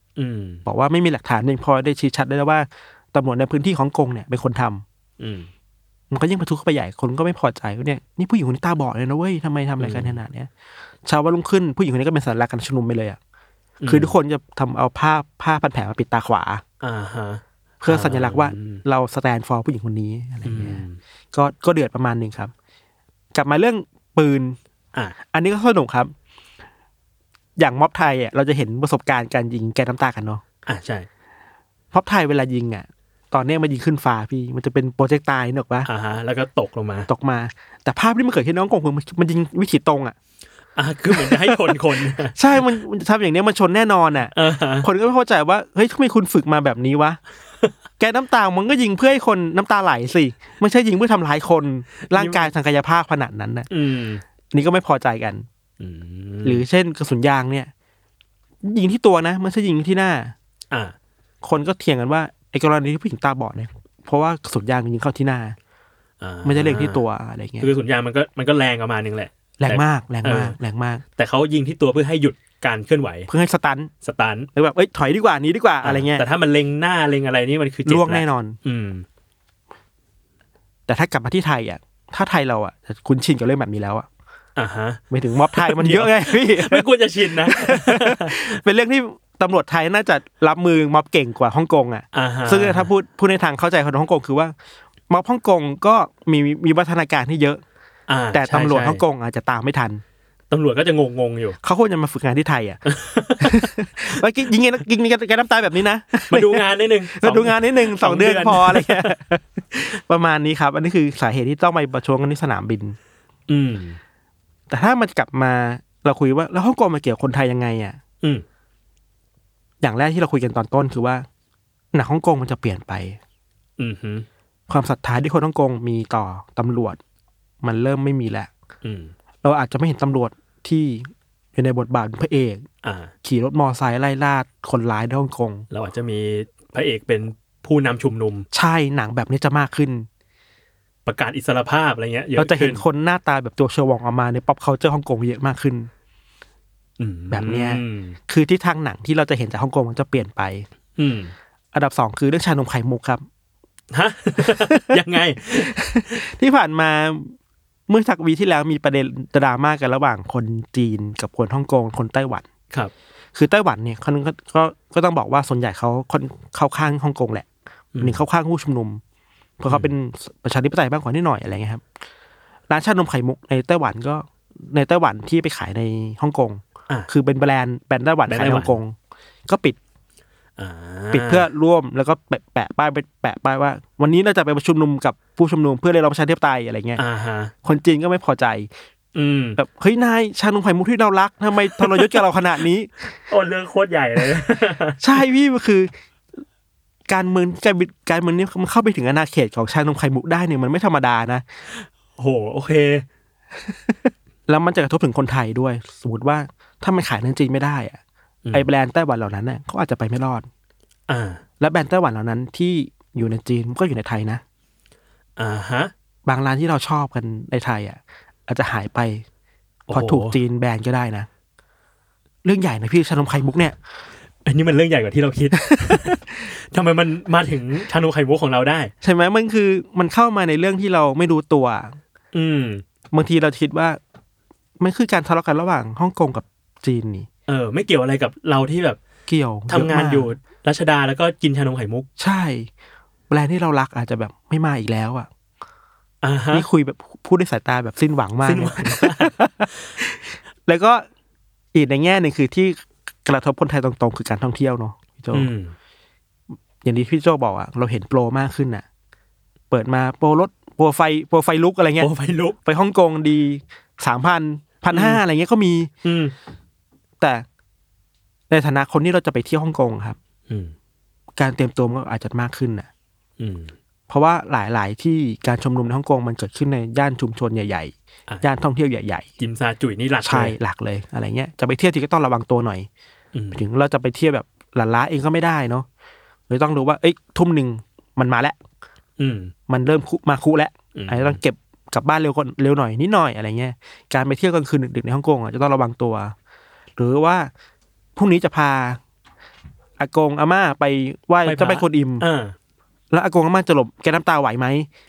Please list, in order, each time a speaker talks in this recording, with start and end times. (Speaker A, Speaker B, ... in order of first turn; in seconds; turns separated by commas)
Speaker A: 0.2-0.6, Speaker B: 0.7-4.8, Speaker A: 5.2-5.5, Speaker B: 6.1-10.5, Speaker A: 9.8-10.2, Speaker B: 11.1-13.2, Speaker A: 13.8-14.2, Speaker B: 13.9-16.6, Speaker A: 16.8-18.8, Speaker B: 17.8-22.5, Speaker A: 20.4-21.0, Speaker B: 23.3-24.6, Speaker B: 25.3-26.1, Speaker B: 27.6-30.4, Speaker A: 30.7-31.1, Speaker B: 31.9-35.9, Speaker A: 35.9-37.1, Speaker B: 37.1-40.1, Speaker A: 40.8-42.6, Speaker B: 41.1-47.2, Speaker A: 44.3-44.9, Speaker B: 48.0-53.7, Speaker A: 52.1-52.5, Speaker A: 53.7-54.2, Speaker B: 54.5-55.5, Speaker A: 55.8-56.6, Speaker B: 56.4-57.7, Speaker B: 58.6-60.4, Speaker B: 61.4-65.6, Speaker A: 66.2-67.0, Speaker B: 66.5-67.7, Speaker A: 67.6-70.6, Speaker B: 69.6-71.0, Speaker A: 71.2-73.3, Speaker B: 73.3-73.9, Speaker A: 74.0-74.5, Speaker B: 74.5-76.3, Speaker A: 75.8-79.1, Speaker B: 77.9-78.6, Speaker B: 80.9-84.1, Speaker A: 84.6-88.6, Speaker B: 85.1-94.5, Speaker A: 92.1-92.9, Speaker B: 95.1-97.6, Speaker A: 98.1-99.0, Speaker B: 98.3-100.0, Speaker A: 100.5-101.6, Speaker B: 101.6-102.8, Speaker A: 102.9-103.7, Speaker B: 103.4-113.0, Speaker A: 106.3-109.1, Speaker A: 113.5-114.0, Speaker B: 114.7-118.0, Speaker B: 119.8-121.3, Speaker B: 121.9-123.2, Speaker A: 123.8-124.3, Speaker B: 124.7-127.0, Speaker B: 127.6-128.5, Speaker A: 128.8-129.1, Speaker B: 129.4-132.7, Speaker A: 132.8-133.1, Speaker B: 133.2-135.7, Speaker A: 135.7-138.5, Speaker B: 138.5-140.1, Speaker A: 141.1-142.8, Speaker B: 142.4-145.9, Speaker A: 147.0-148.2, Speaker B: 147.3-150.7, Speaker A: 151.0-151.3, Speaker B: 151.7-153.2, Speaker A: 153.9-155.7, Speaker B: 154.4-155.0, Speaker B: 155.5-157.4, Speaker B: 157.9-162.4, Speaker B: 163.3-167.5, Speaker A: 167.9-168.2, Speaker B: 168.0-169.0, Speaker B: 169.6-171.8, Speaker B: 172.7-178.9, Speaker A: 178.3-178.8, Speaker B: 179.5-179.8, Speaker A: 180.6-181.5, Speaker B: 181.1-187.0, Speaker A: 187.0-187.5, Speaker B: 187.6-188.7, Speaker A: 189.2-189.6, Speaker B: 189.6-192.9, Speaker A: 191.7-192.2, Speaker A: 193.3-195.1, Speaker B: 195.0-195.9, Speaker B: 197.1-201.4, Speaker A: 201.8-203.1, Speaker B: 204.5-208.0, Speaker B: 208.5-210.5, Speaker A: 211.1-211.4, Speaker B: 211.6-214.4, Speaker A: 215.4-215.9, Speaker B: 216.3-219.2, Speaker A: 219.9-220.4, Speaker B: 219.9-221.3, Speaker B: 222.4-223.8, Speaker A: 224.4-228.9, Speaker B: 225.6-226.5, Speaker B: 229.0-232.0, Speaker A: 232.3-232.8, Speaker B: 233.1-234.0, Speaker B: 234.8-237.3, Speaker A: 237.5-239.0, Speaker B: 239.3-240.3, Speaker A: 239.7-242.1, Speaker B: 242.2-242.7, Speaker B: 243.3-245.3, Speaker A: 246.2-246.7, Speaker B: 246.5-251.1, Speaker A: 248.4-249.3, Speaker B: 251.7-255.5, Speaker A: 255.3-255.8, Speaker B: 256.8-258.9, Speaker B: 259.7-262.1, Speaker A: 262.0-262.6, Speaker B: 262.6-265.9, Speaker A: 264.9-265.2, Speaker A: 266.0-266.4, Speaker B: 267.2-267.4, Speaker B: 268.5-270.2, Speaker A: 270.5-270.7, Speaker B: 271.4-272.9, Speaker A: 273.4-273.7, Speaker B: 274.1-279.3, Speaker A: 279.4-280.6, Speaker B: 280.2-282.9, Speaker A: 283.3-283.6, Speaker B: 283.5-285.9, Speaker B: 286.5-288.6, Speaker A: 289.2-289.5, Speaker B: 289.7-296.4, Speaker A: 290.9-291.4, Speaker B: 297.0-297.5, Speaker B: 298.2-299.0, Speaker B: 300.0-302.3, Speaker A: 301.4-302.6, Speaker B: 303.1-304.9